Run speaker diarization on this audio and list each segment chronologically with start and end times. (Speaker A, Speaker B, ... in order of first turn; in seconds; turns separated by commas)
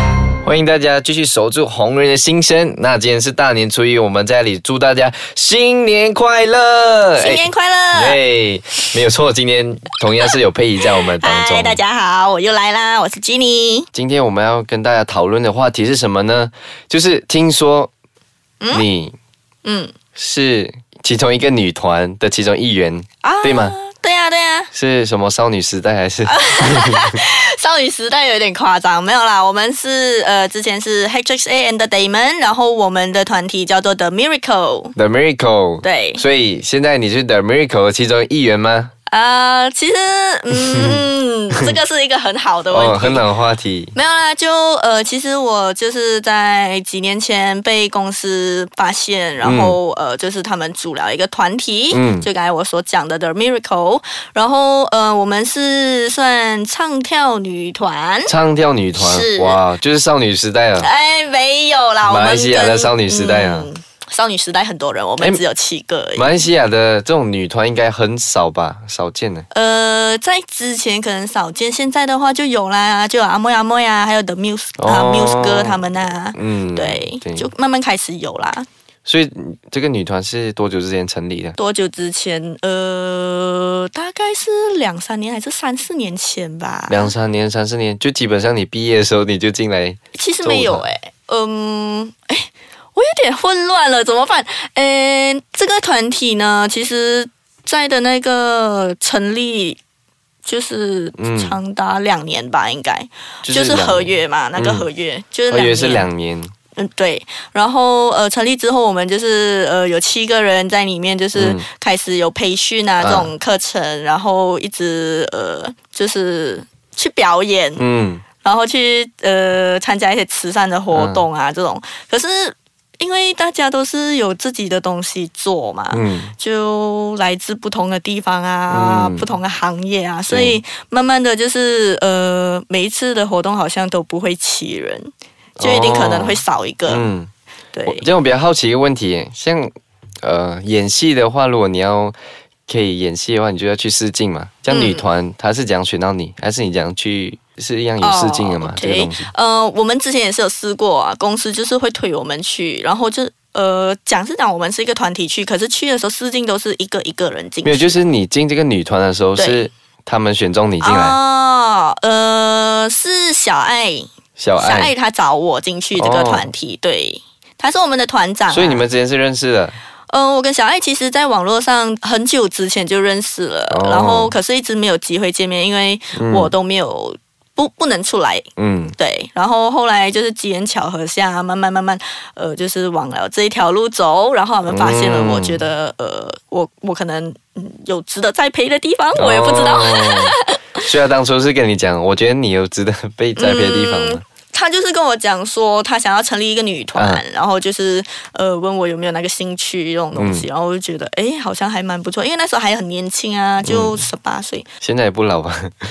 Speaker A: 0.4-11.8, Speaker B: 7.2-8.2, Speaker B: 10.8-13.9, Speaker A: 13.9-17.9, Speaker A: 18.7-19.1, Speaker B: 19.6-19.9, Speaker A: 20.1-23.8, Speaker B: 23.2-24.7, Speaker A: 24.7-27.1, Speaker B: 26.2-34.9, Speaker A: 35.0-38.9, Speaker B: 35.8-36.2, Speaker B: 39.1-43.2, Speaker A: 40.7-41.0, Speaker A: 42.7-43.9, Speaker B: 43.9-58.3, Speaker A: 49.4-49.8, Speaker A: 51.9-52.3, Speaker A: 58.3-60.9, Speaker B: 59.0-59.6, Speaker B: 60.8-66.4, Speaker A: 62.0-63.7, Speaker A: 66.2-69.5, Speaker B: 69.5-78.7, Speaker A: 74.8-77.5, Speaker A: 79.0-81.5, Speaker B: 81.6-87.1, Speaker A: 86.9-90.8, Speaker B: 90.1-99.8, Speaker B: 100.4-106.1, Speaker A: 101.2-101.6, Speaker A: 103.4-104.9, Speaker A: 105.5-106.5, Speaker B: 106.8-117.8, Speaker A: 111.3-111.6, Speaker A: 113.0-113.3, Speaker A: 117.8-118.2, Speaker B: 118.4-137.1, Speaker A: 120.9-121.2, Speaker A: 125.9-126.3, Speaker A: 128.7-129.3, Speaker A: 130.3-130.6, Speaker A: 135.6-137.3, Speaker B: 137.7-138.1, Speaker A: 137.9-139.7, Speaker A: 140.2-142.1, Speaker A: 142.7-149.3, Speaker B: 144.7-145.1, Speaker B: 148.0-158.0, Speaker A: 157.6-161.2, Speaker B: 159.4-159.7, Speaker B: 160.8-168.8, Speaker A: 164.4-164.9, Speaker A: 165.9-166.5, Speaker A: 168.5-169.8, Speaker B: 170.1-190.8, Speaker A: 173.7-174.3, Speaker A: 176.2-176.5, Speaker A: 178.6-178.9, Speaker A: 184.7-185.6, Speaker A: 189.2-194.2, Speaker B: 193.4-204.7, Speaker A: 196.9-197.2, Speaker A: 200.2-200.5, Speaker A: 203.6-204.0, Speaker A: 204.8-205.7